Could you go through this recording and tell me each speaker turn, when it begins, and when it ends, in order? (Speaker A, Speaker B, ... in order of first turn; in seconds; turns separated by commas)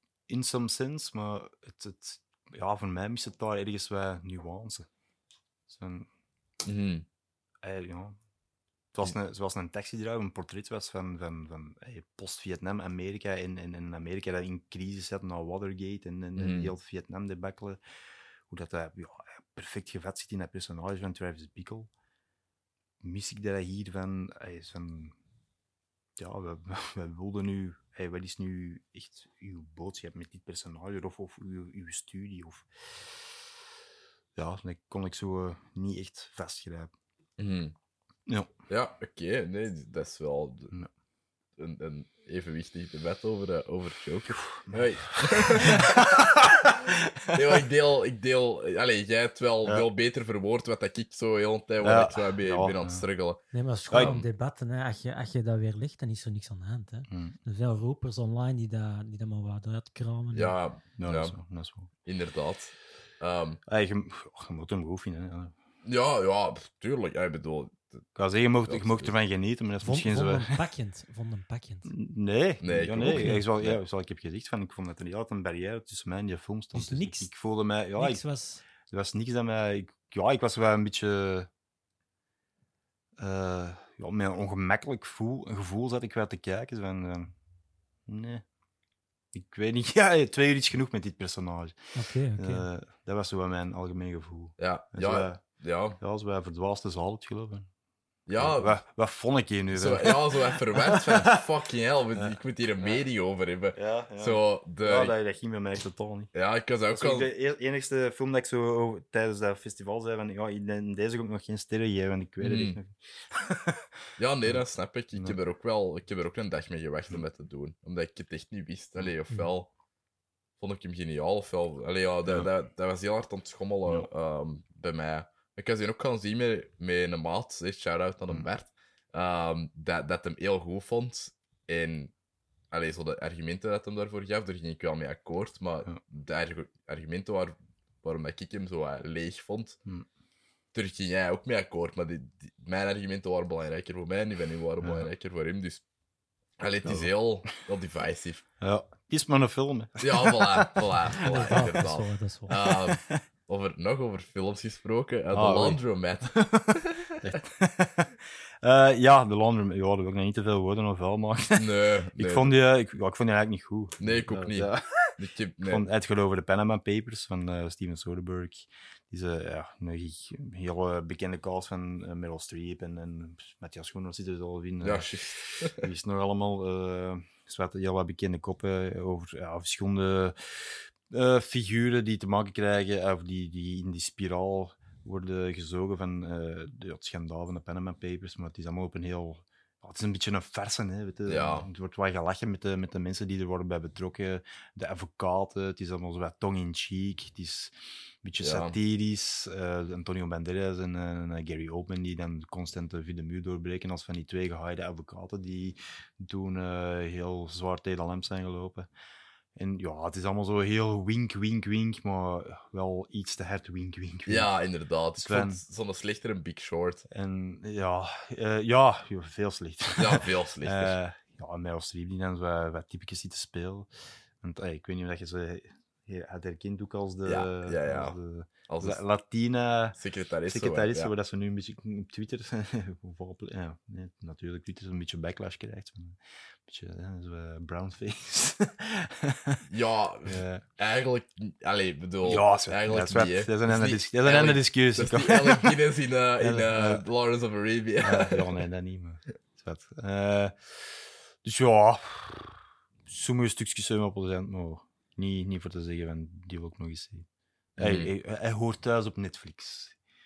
Speaker A: 0.3-4.9, Speaker A: 5.7-6.1, Speaker B: 6.6-7.0, Speaker A: 7.6-8.2, Speaker A: 8.9-17.8, Speaker B: 16.4-16.7, Speaker A: 18.5-21.9, Speaker A: 23.0-25.1, Speaker A: 26.2-33.1, Speaker A: 34.4-36.9, Speaker B: 37.4-37.7, Speaker B: 38.7-40.7, Speaker B: 41.6-46.4, Speaker A: 44.3-47.6, Speaker B: 47.3-53.4, Speaker A: 51.8-53.0, Speaker C: 53.5-60.5, Speaker A: 53.9-54.2, Speaker B: 53.9-54.2, Speaker A: 57.1-57.4, Speaker B: 60.3-61.3, Speaker A: 61.0-61.9, Speaker B: 62.0-63.6, Speaker A: 63.6-65.5, Speaker B: 65.8-68.0, Speaker A: 68.1-70.6, Speaker B: 68.7-69.1, Speaker C: 69.8-71.9, Speaker A: 71.8-78.2, Speaker B: 72.6-73.8, Speaker C: 73.2-73.4, Speaker C: 76.7-77.3, Speaker C: 78.0-78.6, Speaker A: 78.8-81.5, Speaker A: 83.2-87.3, Speaker A: 88.1-88.4, Speaker A: 89.3-95.4, Speaker C: 91.9-92.7, Speaker B: 94.6-96.0, Speaker A: 96.0-97.7, Speaker B: 98.3-98.8, Speaker A: 98.3-101.4, Speaker B: 99.7-105.1, Speaker A: 102.1-103.0, Speaker A: 103.7-106.3, Speaker B: 106.3-107.3, Speaker A: 106.9-113.9, Speaker B: 112.4-112.8, Speaker B: 114.2-119.7, Speaker B: 120.6-132.1, Speaker B: 132.7-139.8, Speaker B: 140.7-145.8, Speaker A: 144.8-145.1, Speaker B: 146.6-148.4, Speaker A: 146.8-147.5, Speaker A: 148.6-151.7, Speaker B: 150.0-157.1, Speaker C: 151.1-152.6, Speaker A: 152.6-153.2, Speaker A: 155.3-208.9, Speaker B: 161.5-162.5, Speaker B: 164.0-165.8, Speaker B: 174.8-175.8, Speaker B: 191.3-191.7, Speaker B: 198.4-198.8, Speaker A: 209.6-214.5, Speaker B: 214.3-217.0, Speaker A: 215.2-215.6, Speaker A: 217.1-223.9, Speaker B: 220.0-220.9, Speaker A: 224.4-239.7, Speaker B: 227.2-228.2, Speaker B: 228.7-229.0, Speaker B: 229.9-231.1, Speaker B: 239.7-248.6, Speaker A: 240.2-240.6, Speaker A: 242.2-245.8, Speaker A: 246.4-247.0, Speaker A: 248.0-250.5, Speaker A: 251.4-260.0, Speaker B: 257.8-258.1